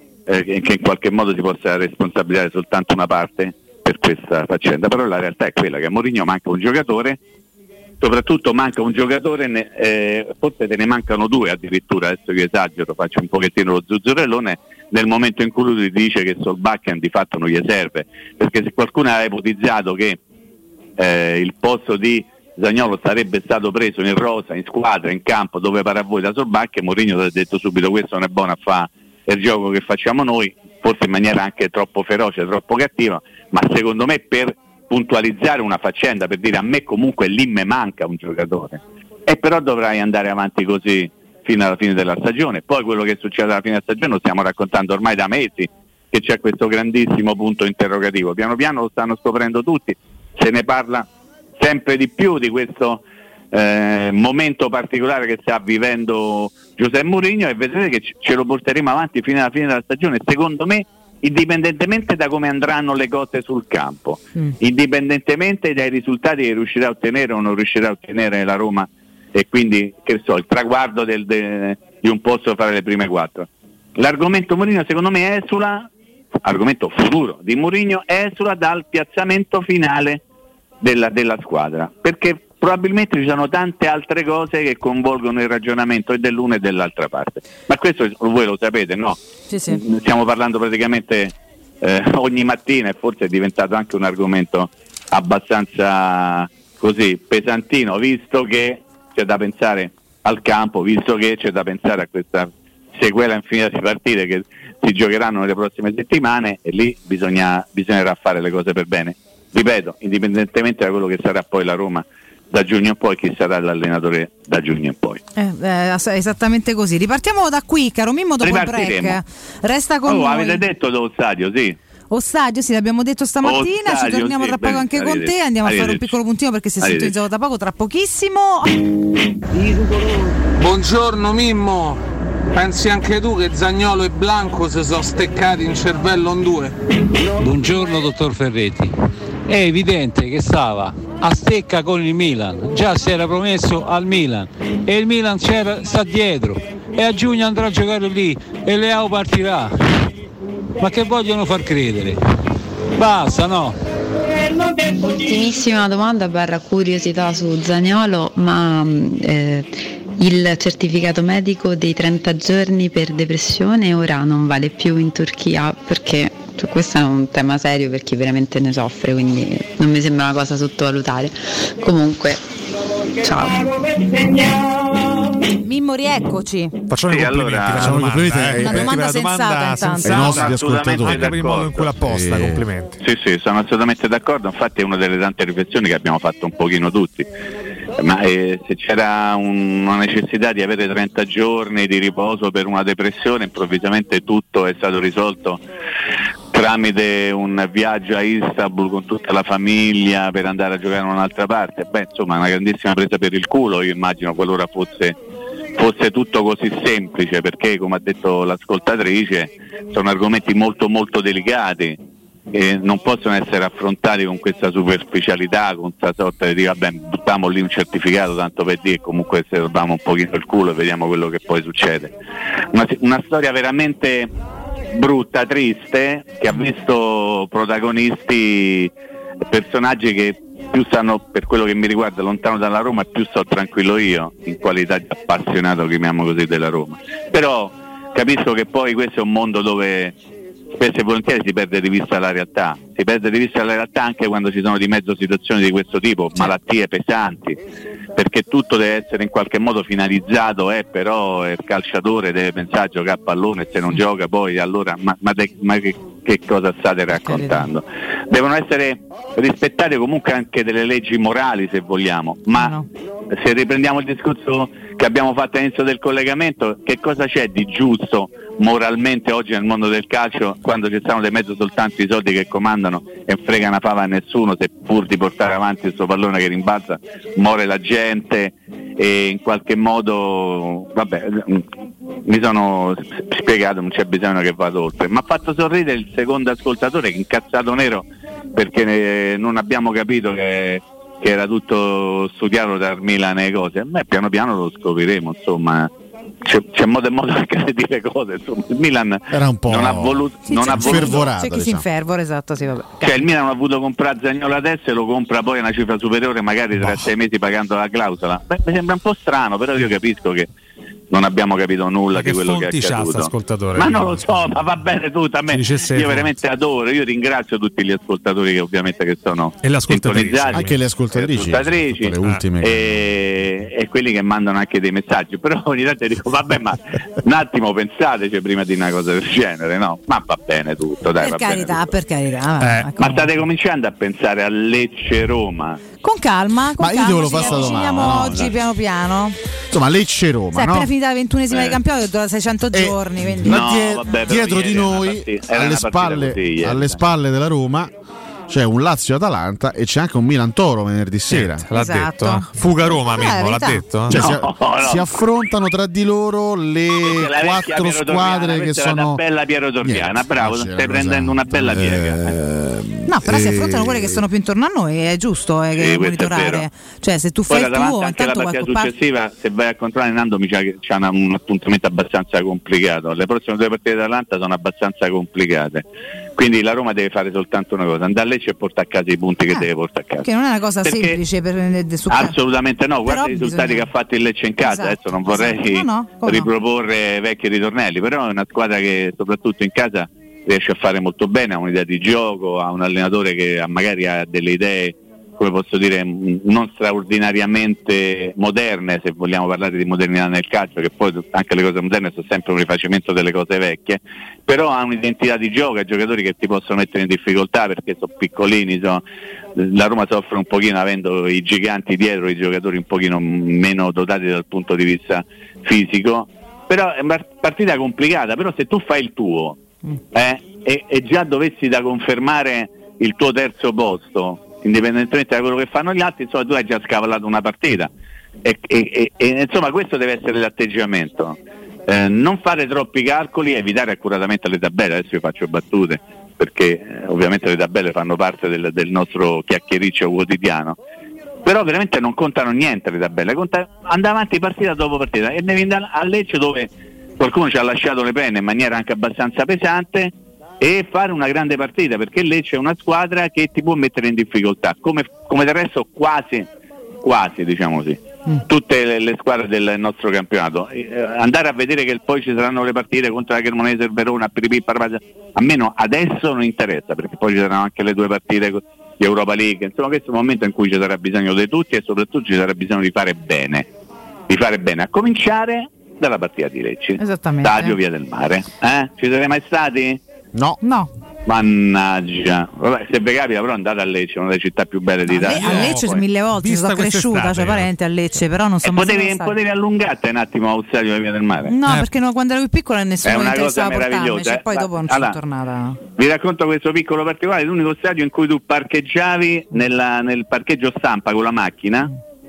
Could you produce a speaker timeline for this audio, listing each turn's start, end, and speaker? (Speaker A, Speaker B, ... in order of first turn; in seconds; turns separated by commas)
Speaker A: 0.3-7.2, Speaker A: 8.0-20.2, Speaker A: 21.0-51.1, Speaker A: 51.6-75.9, Speaker A: 76.4-80.2, Speaker A: 80.8-115.2, Speaker B: 89.5-89.8, Speaker B: 115.3-120.6, Speaker A: 118.4-119.2, Speaker A: 120.0-121.8, Speaker B: 122.1-128.9, Speaker A: 123.4-126.1, Speaker A: 126.8-127.1, Speaker C: 129.5-132.0, Speaker C: 132.5-136.8, Speaker D: 137.4-138.9, Speaker D: 139.5-150.0, Speaker D: 150.8-152.2, Speaker D: 152.9-153.8, Speaker E: 154.8-172.5, Speaker E: 173.1-174.7, Speaker B: 175.6-176.7, Speaker F: 176.9-183.0, Speaker A: 177.1-178.1, Speaker G: 177.7-178.9, Speaker B: 178.5-180.3, Speaker G: 180.0-181.3, Speaker A: 180.2-181.9, Speaker G: 182.0-182.6, Speaker A: 183.0-187.3, Speaker A: 187.9-195.6, Speaker A: 196.5-205.2, Speaker A: 205.8-212.0, Speaker A: 212.5-222.1, Speaker A: 222.7-224.3, Speaker A: 224.9-228.9, Speaker A: 229.5-240.1, Speaker A: 240.8-247.6, Speaker A: 248.1-262.7, Speaker B: 257.2-257.6, Speaker B: 262.5-262.9, Speaker A: 263.3-281.6, Speaker A: 282.2-295.9, Speaker A: 296.4-301.3, Speaker G: 299.3-301.9, Speaker B: 300.5-303.2, Speaker A: 303.0-310.5, Speaker F: 306.8-307.1, Speaker A: 311.1-331.9, Speaker F: 312.1-314.2, Speaker F: 315.5-316.3, Speaker F: 319.6-320.7, Speaker G: 320.5-322.8, Speaker B: 331.2-333.3, Speaker A: 333.0-335.8, Speaker B: 336.0-339.4, Speaker G: 336.8-338.5, Speaker G: 339.7-340.9, Speaker B: 340.5-343.6, Speaker A: 341.5-341.8, Speaker G: 342.7-347.9, Speaker A: 343.4-347.0, Speaker G: 348.5-351.6, Speaker F: 351.3-354.2, Speaker B: 351.7-352.4, Speaker B: 353.1-353.8, Speaker G: 354.1-359.2, Speaker A: 354.1-355.1, Speaker A: 357.0-362.4, Speaker G: 359.8-364.2, Speaker B: 363.1-368.9, Speaker A: 365.7-366.6, Speaker A: 367.5-375.8, Speaker A: 376.4-380.3, Speaker B: 380.2-382.3, Speaker A: 380.8-381.2, Speaker A: 382.1-409.0, Speaker B: 383.1-383.9, Speaker B: 384.6-386.5, Speaker A: 409.6-419.6, Speaker A: 420.1-427.9, Speaker A: 428.4-440.8, Speaker A: 441.4-456.5, Speaker A: 457.0-473.7, Speaker A: 474.3-480.0, Speaker B: 477.0-477.8, Speaker G: 480.3-480.6, Speaker B: 480.6-480.9, Speaker A: 481.2-486.0, Speaker B: 485.1-489.3, Speaker F: 485.3-487.7, Speaker A: 488.6-491.5, Speaker B: 491.4-495.8, Speaker A: 493.0-495.2, Speaker A: 495.9-501.9